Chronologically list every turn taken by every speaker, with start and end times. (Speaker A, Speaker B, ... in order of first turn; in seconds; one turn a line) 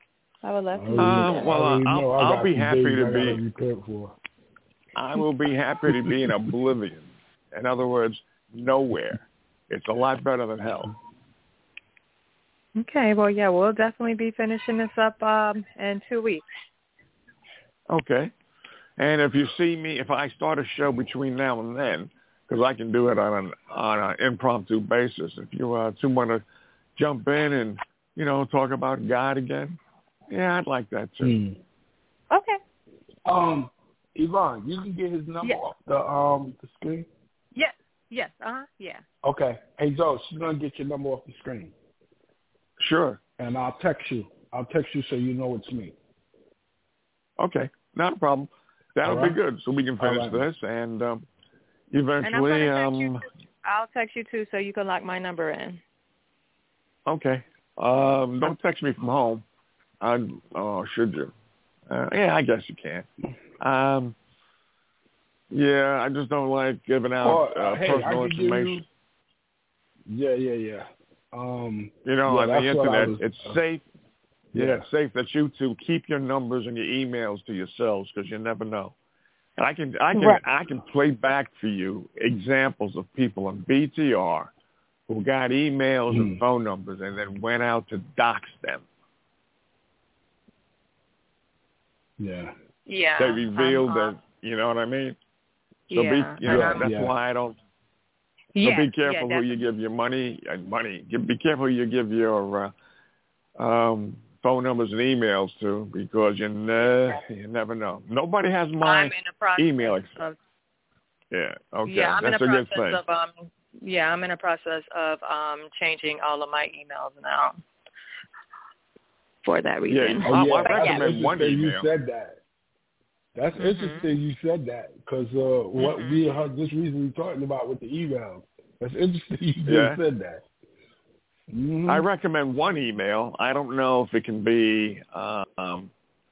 Speaker A: 0.4-1.5
Speaker B: 0.7-4.2
Speaker C: 1.0-3.4
Speaker C: 4.9-10.9
Speaker B: 5.9-6.4
Speaker A: 12.8-16.4
Speaker C: 17.9-18.3
Speaker C: 19.0-26.4
Speaker C: 26.9-31.4
Speaker B: 31.2-31.6
Speaker A: 32.3-32.6
Speaker B: 33.2-37.1
Speaker A: 37.5-39.0
Speaker B: 39.2-41.7
Speaker C: 42.8-43.2
Speaker B: 43.4-45.9
Speaker C: 47.4-51.2
Speaker B: 49.0-49.4
Speaker B: 50.0-50.4
Speaker C: 51.9-53.2
Speaker A: 52.2-55.8
Speaker C: 57.0-59.4
Speaker C: 60.0-61.3
Speaker C: 61.9-63.1
Speaker C: 63.6-64.1
Speaker C: 65.5-68.8
Speaker B: 67.2-68.8
Speaker B: 70.1-73.6
Speaker C: 72.0-73.8
Speaker B: 74.5-74.8
Speaker C: 74.5-78.9
Speaker C: 79.6-84.5
Speaker A: 80.1-80.4
Speaker C: 85.1-88.8
Speaker B: 86.1-86.4
Speaker B: 92.2-92.5
Speaker A: 92.9-94.2
Speaker C: 93.2-95.2
Speaker A: 95.9-96.9
Speaker C: 95.9-97.6
Speaker B: 96.5-97.1
Speaker A: 98.5-99.6
Speaker C: 98.6-102.7
Speaker C: 103.6-110.1
Speaker A: 108.8-110.4
Speaker C: 111.3-113.0
Speaker A: 111.9-117.6
Speaker A: 119.4-121.0
Speaker C: 119.9-121.8
Speaker B: 120.2-122.4
Speaker B: 123.3-130.4
Speaker A: 123.6-124.1
Speaker A: 125.8-126.2
Speaker C: 129.7-130.0
Speaker B: 131.5-132.1
Speaker C: 131.9-135.9